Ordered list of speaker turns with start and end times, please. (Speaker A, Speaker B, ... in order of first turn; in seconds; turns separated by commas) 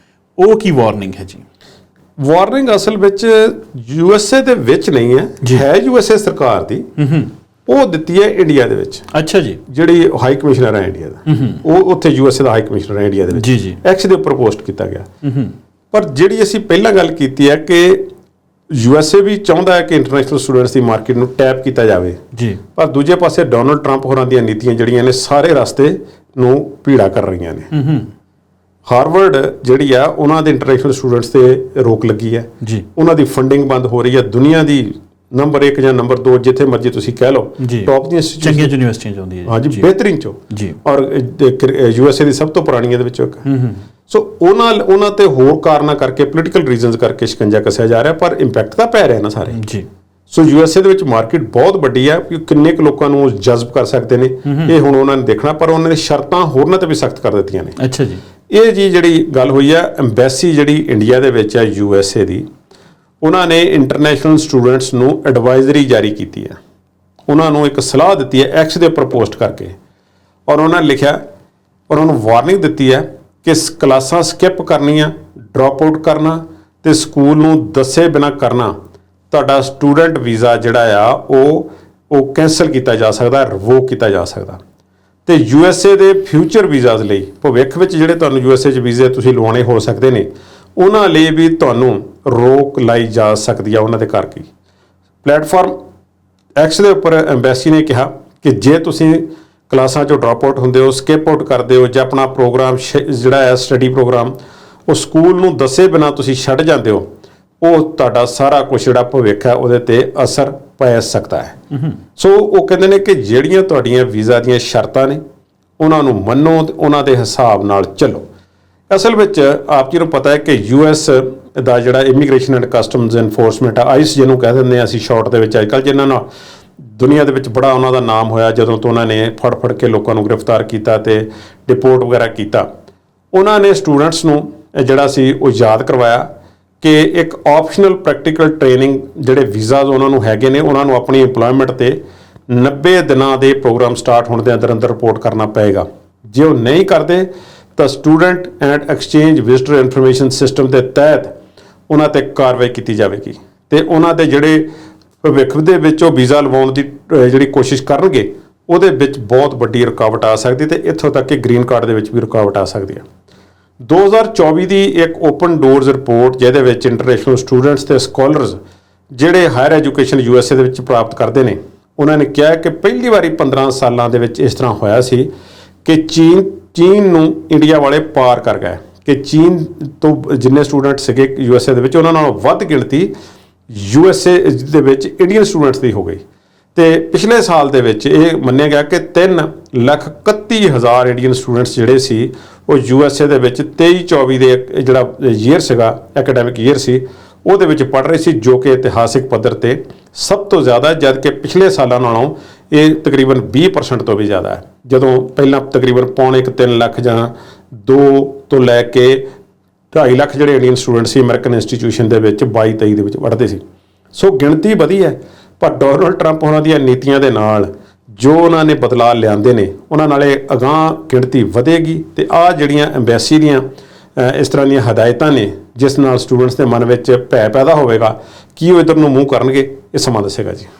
Speaker A: 0.4-1.4, Speaker B: 2.2-6.9, Speaker A: 7.0-7.3, Speaker B: 7.7-9.1, Speaker A: 9.1-9.6, Speaker B: 9.7-15.1, Speaker A: 11.3-11.6, Speaker A: 13.4-13.8, Speaker A: 15.2-15.5, Speaker B: 15.9-18.1, Speaker B: 18.7-22.2, Speaker A: 22.3-22.6, Speaker B: 22.8-27.7, Speaker A: 27.7-28.1, Speaker B: 28.9-38.8, Speaker A: 37.6-39.9, Speaker B: 39.5-43.5, Speaker A: 40.5-40.8, Speaker A: 43.5-43.8, Speaker B: 44.1-49.6, Speaker A: 49.5-49.9, Speaker B: 50.3-57.8, Speaker A: 54.5-54.7, Speaker A: 57.8-58.2, Speaker B: 58.5-62.5, Speaker B: 63.2-66.6, Speaker B: 67.3-69.8, Speaker B: 70.5-71.2, Speaker B: 71.9-78.7, Speaker B: 79.3-84.6, Speaker B: 85.3-94.5, Speaker B: 95.2-95.8, Speaker B: 96.6-104.3, Speaker B: 104.9-107.1, Speaker B: 107.6-111.6, Speaker B: 112.2-115.2, Speaker B: 115.8-118.2, Speaker B: 118.9-126.2, Speaker B: 126.9-132.7, Speaker B: 133.3-136.3, Speaker B: 136.8-151.3, Speaker B: 151.9-154.7, Speaker B: 155.2-163.1, Speaker B: 163.8-168.6, Speaker B: 169.1-175.3, Speaker B: 175.8-183.1, Speaker B: 183.7-186.2, Speaker B: 186.8-209.2, Speaker B: 209.9-213.6, Speaker B: 214.1-223.7, Speaker B: 224.2-230.7